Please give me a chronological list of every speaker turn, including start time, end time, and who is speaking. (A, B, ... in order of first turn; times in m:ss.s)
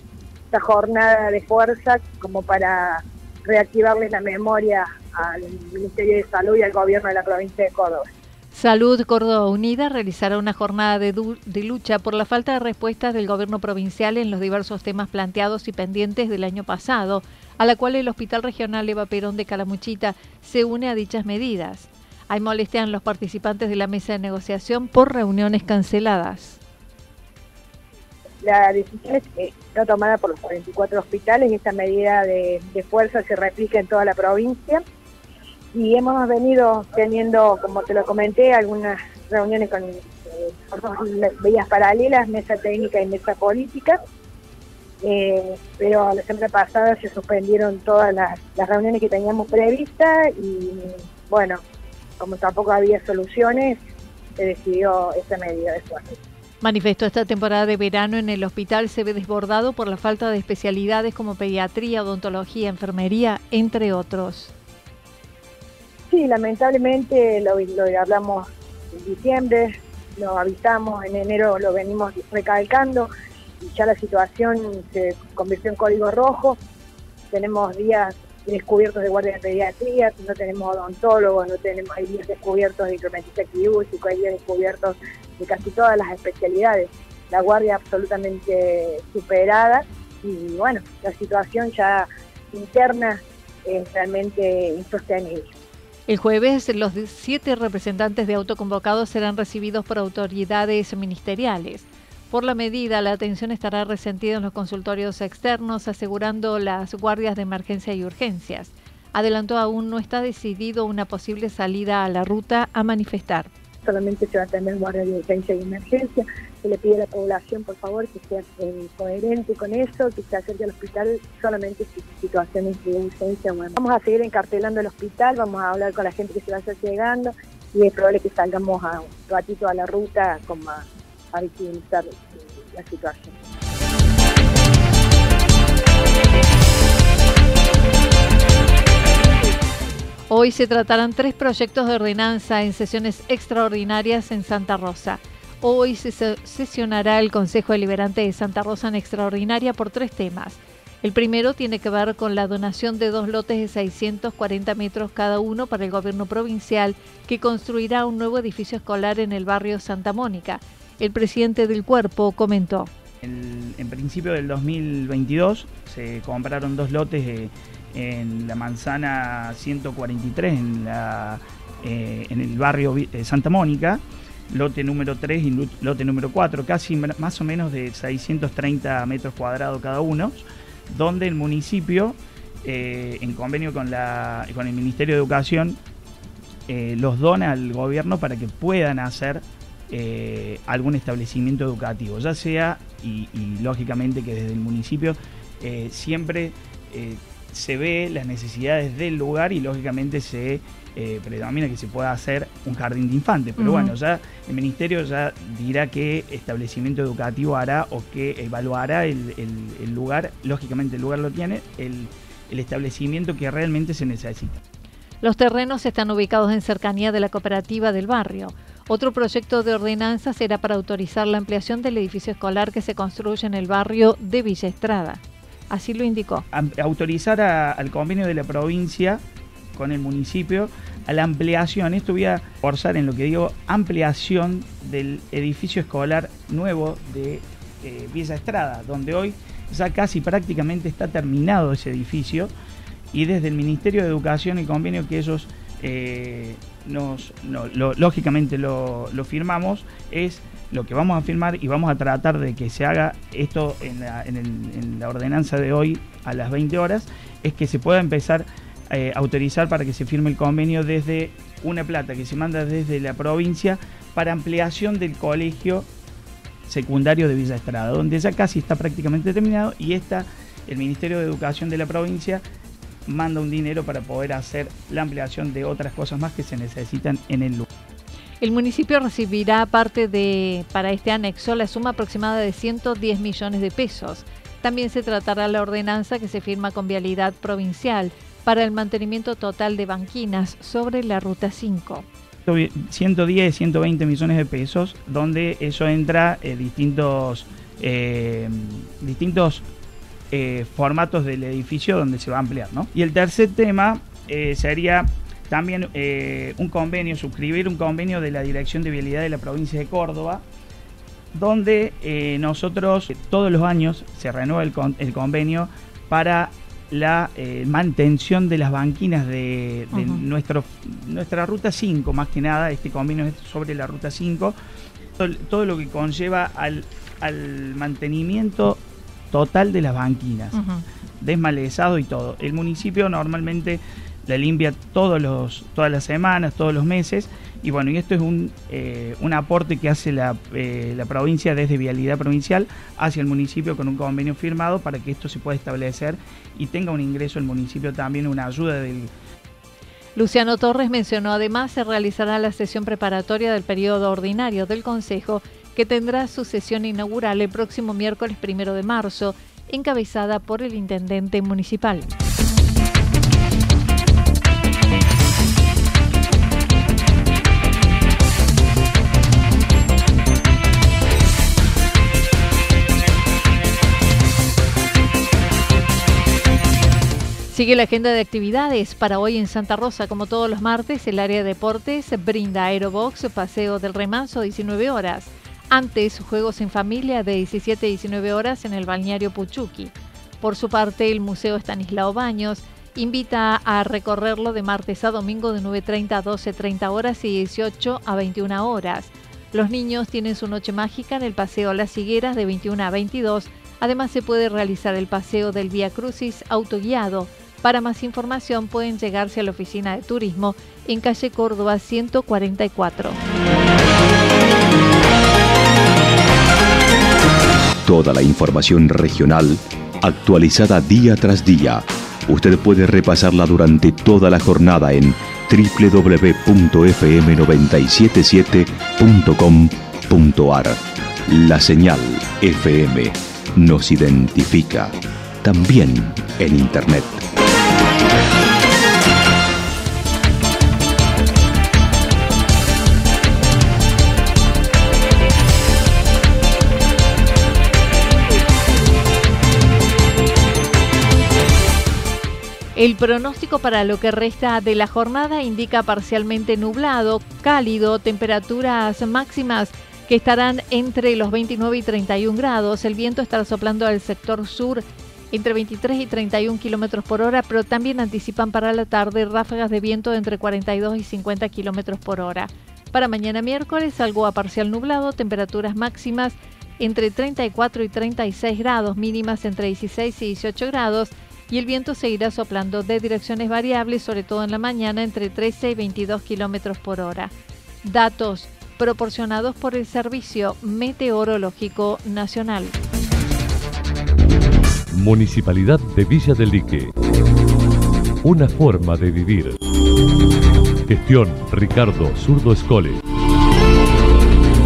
0:00.5-0:08.0 A
0:08.5-0:26.6 B
0:28.4-0:34.8 A
0:35.7-0:44.0 A
0:45.0-0:51.6 A
0:52.2-0:53.8 A
0:54.4-0:56.2 A
0:56.6-1:04.5 B
1:06.1-1:13.1 A
1:13.6-1:16.6 A
1:17.3-1:35.4 A
1:36.1-1:53.5 B
1:53.8-2:13.3 A
2:20.3-2:42.9 B
2:43.2-3:05.8 C
3:06.7-3:34.6 C
3:23.6-3:23.9 B
3:35.2-3:46.4 B
3:46.5-3:49.2 C
3:49.7-4:02.5 C
4:03.1-4:25.9 C
4:26.7-4:32.4 C
4:33.1-4:37.6 C
4:38.4-4:52.0 B
4:52.4-4:59.7 C
5:00.3-5:10.4 C
5:11.3-5:24.6 C
5:19.9-5:20.2 B
5:25.2-5:28.8 C
5:29.3-5:30.6 C
5:30.5-5:30.8 B
5:31.2-5:49.1 C
5:50.2-6:02.1 B
6:17.5-6:53.2 B
6:57.8-7:17.3 D
7:32.7-8:12.8 B
8:14.9-8:16.9 E
8:18.2-8:19.6 E
8:20.9-8:23.0 E